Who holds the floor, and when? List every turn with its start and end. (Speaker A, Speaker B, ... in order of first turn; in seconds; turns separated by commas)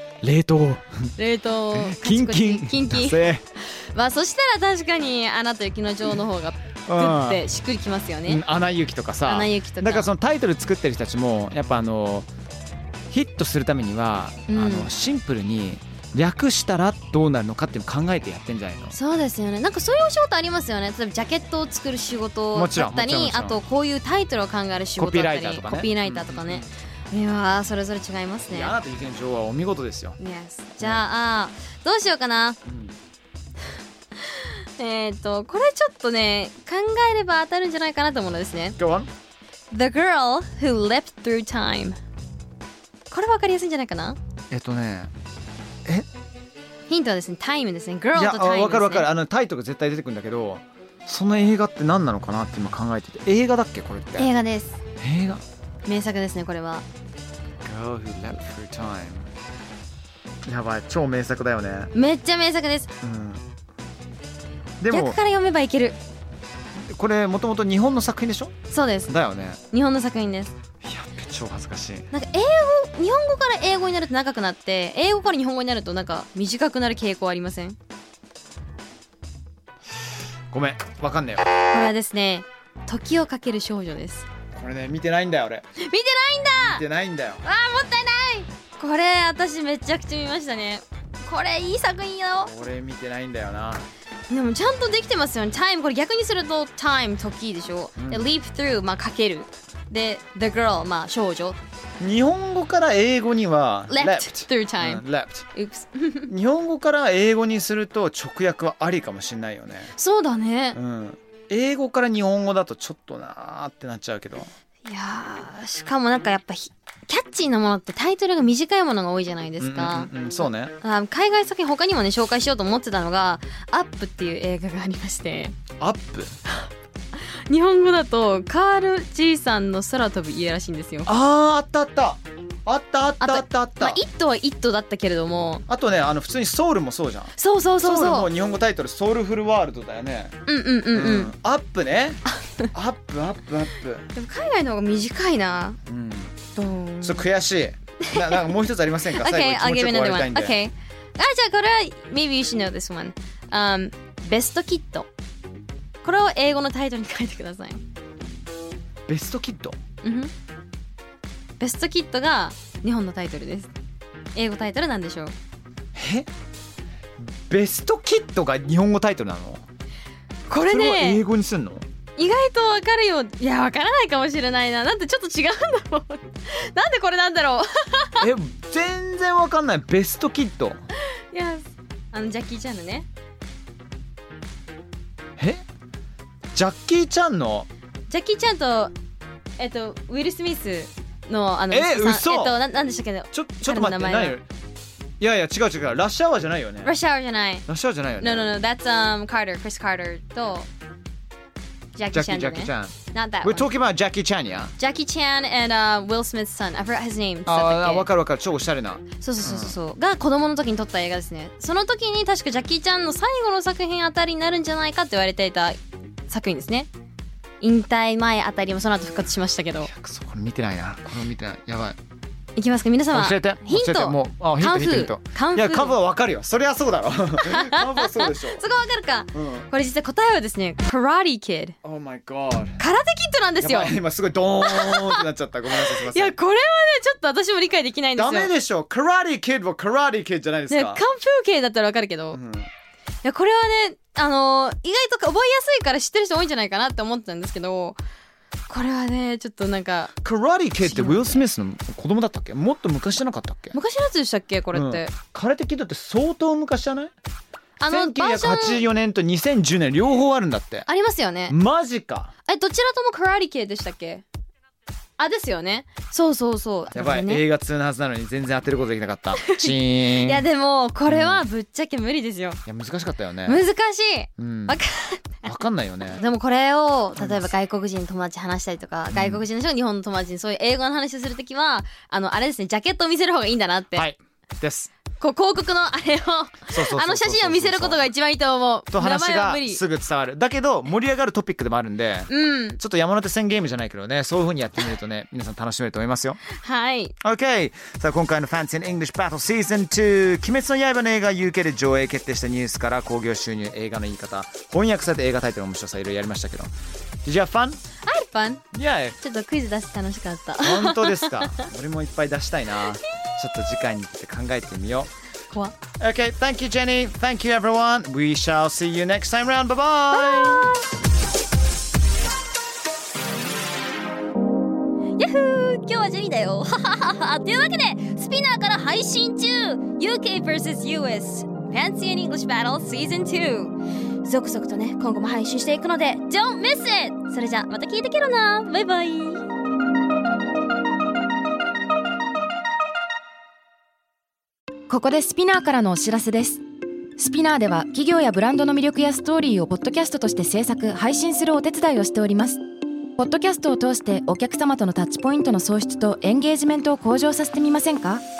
Speaker A: 0.2-1.1, Speaker B: 1.2-3.2, Speaker A: 1.7-3.4, Speaker B: 3.7-8.4, Speaker A: 6.9-7.4, Speaker A: 8.2-12.3, Speaker B: 9.2-10.1, Speaker A: 13.1-18.9, Speaker B: 14.5-14.9, Speaker B: 18.9-28.7, Speaker A: 22.5-23.6, Speaker A: 25.0-26.7, Speaker A: 28.5-30.2, Speaker B: 30.2-32.6, Speaker A: 32.6-33.0, Speaker B: 34.2-38.8, Speaker A: 38.8-39.1, Speaker B: 39.7-42.0, Speaker B: 43.1-44.2, Speaker A: 44.5-45.1, Speaker B: 46.9-49.1, Speaker A: 48.1-54.3, Speaker B: 54.2-54.8, Speaker A: 55.0-55.4, Speaker B: 55.9-56.8, Speaker A: 57.6-59.3, Speaker A: 60.5-61.9, Speaker B: 61.9-62.9, Speaker A: 63.0-63.4, Speaker A: 64.8-65.2, Speaker B: 64.9-66.0, Speaker A: 66.8-68.5, Speaker B: 68.7-69.1, Speaker A: 69.1-69.6, Speaker B: 69.7-70.5, Speaker A: 70.8-72.1, Speaker B: 72.1-77.8, Speaker A: 80.5-81.5, Speaker B: 81.7-84.2, Speaker A: 84.5-85.6, Speaker B: 85.8-86.8, Speaker A: 86.6-87.4, Speaker B: 87.4-92.5, Speaker A: 92.4-93.9, Speaker B: 94.3-101.6, Speaker A: 98.0-98.3, Speaker A: 102.0-105.5, Speaker B: 103.9-105.0, Speaker B: 105.5-106.3, Speaker A: 106.3-109.9, Speaker B: 110.0-110.8, Speaker A: 110.7-114.5, Speaker B: 114.8-125.5, Speaker A: 119.6-120.7, Speaker A: 125.8-126.4, Speaker B: 127.5-131.1, Speaker A: 131.0-134.0, Speaker B: 133.2-135.6, Speaker A: 135.7-140.3, Speaker B: 137.4-138.3, Speaker B: 140.5-141.3, Speaker A: 140.9-144.0, Speaker B: 144.1-145.8, Speaker A: 145.9-146.3, Speaker B: 146.6-147.3, Speaker A: 147.0-150.6, Speaker B: 148.1-148.5, Speaker B: 149.1-155.1, Speaker B: 156.0-157.8, Speaker A: 159.1-159.8, Speaker B: 160.0-160.3, Speaker B: 161.6-163.7, Speaker B: 164.3-165.3, Speaker A: 165.9-166.3, Speaker A: 167.2-169.6, Speaker B: 170.5-171.2, Speaker A: 170.7-171.8, Speaker B: 172.2-178.3, Speaker A: 178.2-180.8, Speaker B: 181.0-183.1, Speaker A: 185.4-185.6, Speaker A: 186.5-187.7, Speaker B: 188.1-188.9, Speaker B: 189.6-194.4, Speaker A: 191.7-192.6, Speaker A: 193.3-194.4, Speaker A: 195.2-196.9, Speaker B: 196.8-197.6, Speaker A: 197.7-198.5, Speaker B: 198.2-200.7, Speaker B: 201.9-203.7, Speaker A: 202.1-204.7, Speaker B: 204.8-208.1, Speaker A: 207.4-209.8, Speaker B: 209.2-216.9, Speaker B: 217.6-219.9, Speaker A: 219.8-222.0, Speaker B: 222.6-225.9, Speaker A: 223.1-228.6, Speaker B: 227.4-231.7, Speaker A: 229.3-229.7, Speaker A: 231.8-232.8, Speaker B: 232.8-234.0, Speaker A: 233.6-236.3, Speaker B: 234.6-238.5, Speaker A: 238.2-241.0, Speaker B: 240.7-242.4, Speaker A: 242.3-242.7, Speaker B: 243.2-248.0, Speaker B: 248.7-250.1, Speaker A: 250.2-253.8, Speaker B: 250.8-251.4, Speaker B: 253.7-255.1, Speaker A: 254.7-257.1, Speaker B: 257.8-258.8, Speaker A: 257.9-260.9, Speaker B: 260.9-261.6, Speaker A: 261.5-262.3, Speaker B: 262.4-264.2, Speaker B: 265.2-267.4, Speaker A: 266.9-270.4, Speaker B: 269.4-272.6, Speaker A: 271.1-271.4, Speaker A: 272.6-273.6, Speaker B: 273.4-275.5, Speaker A: 274.4-274.8, Speaker A: 275.4-276.2, Speaker B: 276.1-284.1, Speaker A: 277.2-277.5, Speaker A: 279.1-279.4, Speaker A: 283.9-284.9, Speaker B: 285.2-289.8, Speaker A: 286.7-288.0, Speaker A: 288.9-296.4, Speaker B: 292.3-292.8, Speaker B: 296.5-297.1, Speaker A: 297.2-306.7, Speaker A: 307.2-307.8, Speaker B: 308.1-308.6, Speaker A: 308.7-309.2, Speaker B: 309.2-311.6, Speaker A: 310.6-315.1, Speaker A: 316.0-320.7, Speaker B: 320.1-320.9, Speaker B: 325.1-339.4, Speaker C: 344.9-346.6, Speaker C: 347.2-352.6, Speaker C: 353.2-358.2